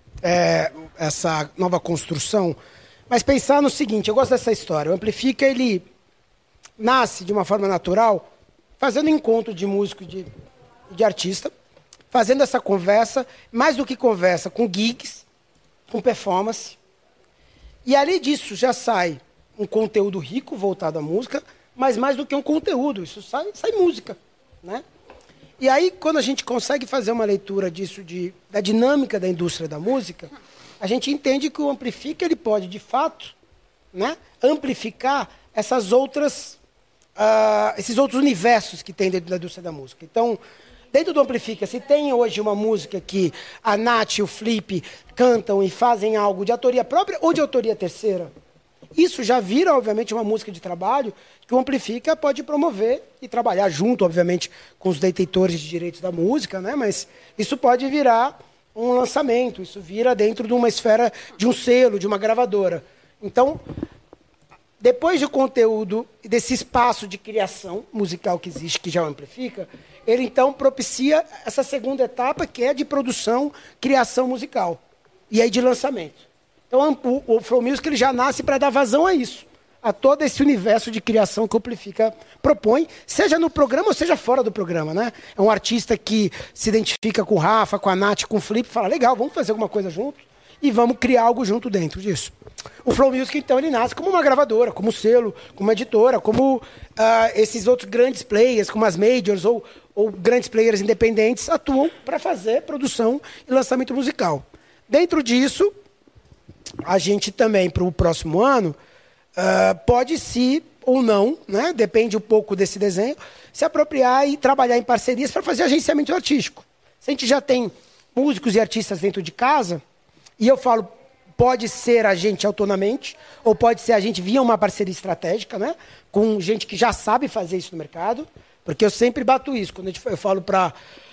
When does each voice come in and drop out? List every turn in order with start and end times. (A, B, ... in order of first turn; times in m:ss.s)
0:00.2-0:02.6 A
0:03.1-0:05.9 A
0:06.8-0:08.3 A
0:08.8-0:10.3 A
0:10.9-0:11.5 A
0:12.1-0:15.2 A
0:15.9-0:16.8 A
0:17.8-0:24.8 A
0:25.6-0:33.3 A
0:33.9-0:36.6 A
0:37.2-0:40.4 A
0:40.9-0:48.3 A
0:49.0-1:03.6 A
1:04.8-1:14.8 A
1:15.3-1:45.7 A
1:46.8-1:48.8 A
1:49.4-1:59.8 A
2:00.4-2:10.7 A